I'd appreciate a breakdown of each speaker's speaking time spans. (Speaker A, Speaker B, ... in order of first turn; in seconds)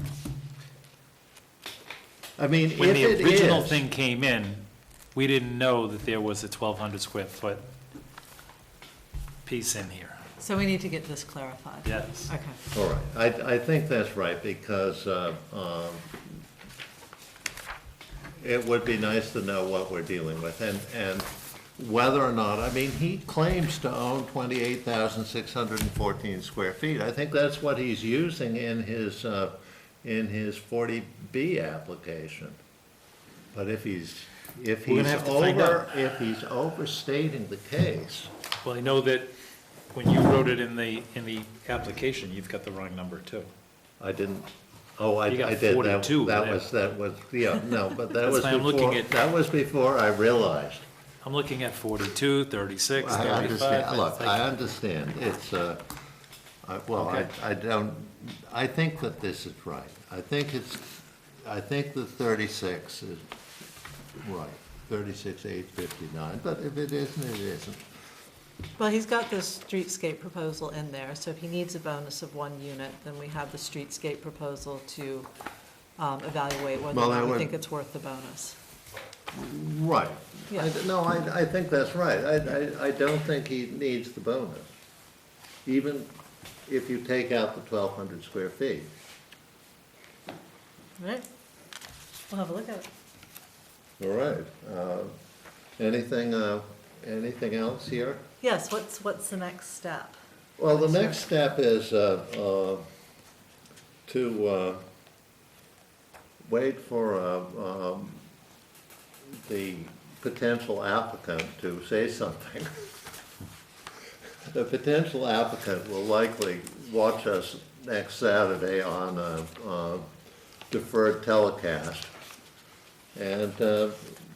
Speaker A: 2.4-3.8, 12.7-16.2, 18.4-32.6, 33.5-38.3, 44.0-50.9, 53.0-55.9, 56.6-63.2, 64.2-67.8, 76.9-77.5, 79.3-84.7, 85.7-86.1, 86.7-88.9, 94.0-95.1, 95.8-98.2, 100.6-102.8, 104.1-104.8, 106.4-108.2, 109.3-112.9, 114.5-120.1, 120.7-122.1, 123.2-124.2
Speaker B: 2.8-7.7, 9.4-10.2, 11.8-12.3, 34.9-35.8, 38.6-39.3, 39.9-43.5, 45.3-46.6, 48.2-49.1, 51.2-54.4, 57.0-57.3
Speaker C: 10.4-12.6, 68.8-75.3, 76.0-78.6, 91.0-91.3, 92.3-92.9, 98.4-100.2, 100.7-101.2